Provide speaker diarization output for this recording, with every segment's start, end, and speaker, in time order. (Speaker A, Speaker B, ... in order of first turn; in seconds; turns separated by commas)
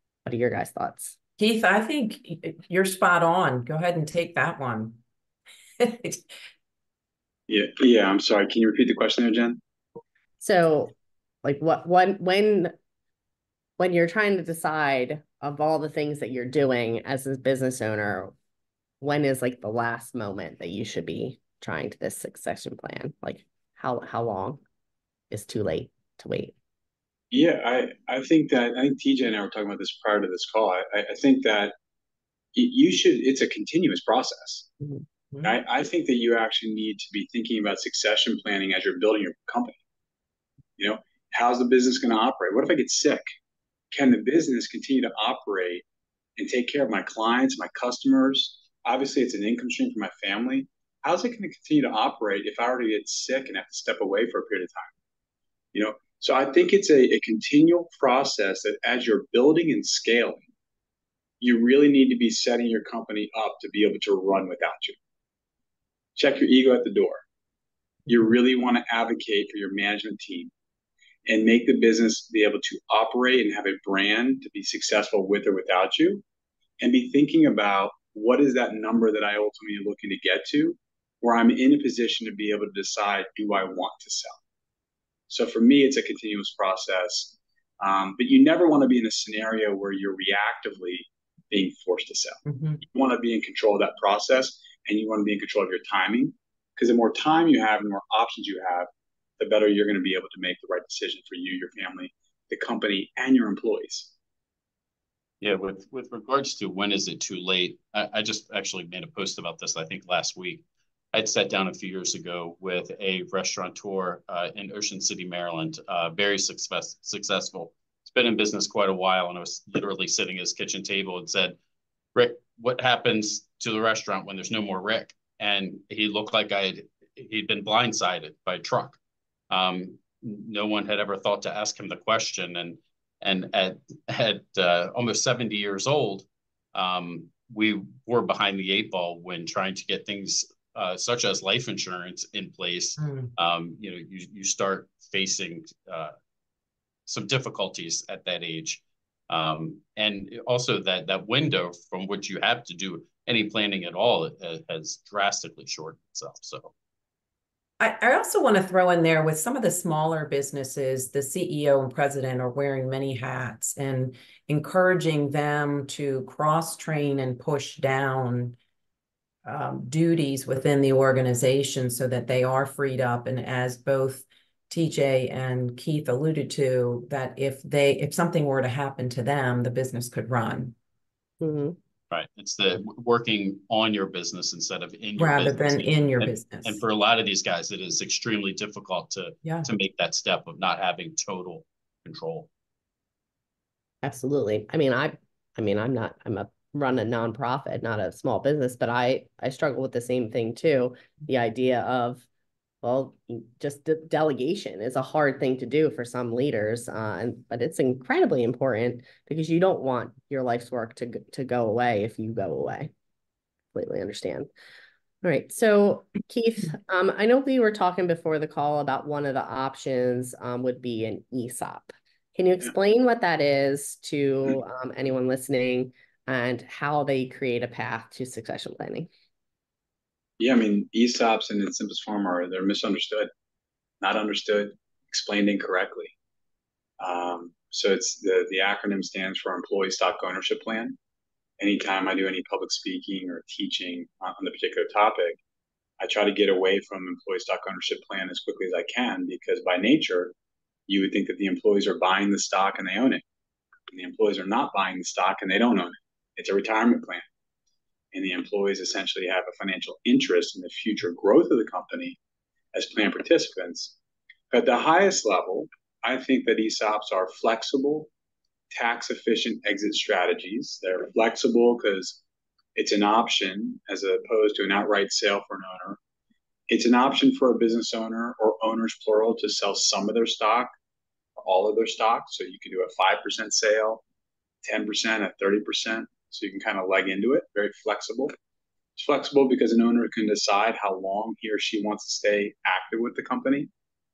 Speaker A: 0.2-1.2, Speaker B: 1.4-5.0, Speaker B: 5.8-6.3, Speaker C: 7.5-9.6, Speaker A: 10.4-12.7, Speaker A: 13.8-18.3, Speaker A: 19.0-24.6, Speaker A: 25.3-26.5, Speaker C: 27.3-31.7, Speaker C: 32.5-34.7, Speaker C: 35.4-39.8, Speaker C: 40.8-43.2, Speaker C: 43.9-45.8, Speaker C: 46.4-54.9, Speaker C: 55.7-60.5, Speaker C: 61.4-65.0, Speaker C: 66.2-67.2, Speaker C: 68.1-70.5, Speaker C: 71.3-76.2, Speaker C: 76.8-84.4, Speaker C: 85.3-104.1, Speaker B: 92.5-92.8, Speaker D: 105.4-121.6, Speaker D: 122.2-129.0, Speaker D: 129.5-146.2, Speaker B: 143.0-143.3, Speaker D: 147.1-156.7, Speaker B: 157.8-168.6, Speaker B: 169.4-180.8, Speaker A: 181.4-181.8, Speaker D: 182.1-192.5, Speaker B: 185.2-186.8, Speaker A: 194.0-202.3, Speaker A: 202.8-212.9, Speaker A: 213.7-214.5, Speaker A: 215.2-229.1, Speaker C: 230.4-233.3, Speaker C: 234.0-236.1, Speaker C: 237.0-241.0, Speaker C: 241.6-245.4, Speaker C: 246.0-250.3, Speaker C: 250.9-253.2, Speaker C: 253.9-257.2, Speaker C: 258.1-262.2, Speaker C: 262.7-263.9, Speaker C: 264.5-268.1, Speaker C: 268.7-272.2, Speaker C: 272.8-276.0, Speaker C: 276.7-280.7, Speaker C: 281.4-284.0, Speaker C: 284.6-288.3, Speaker C: 289.0-293.7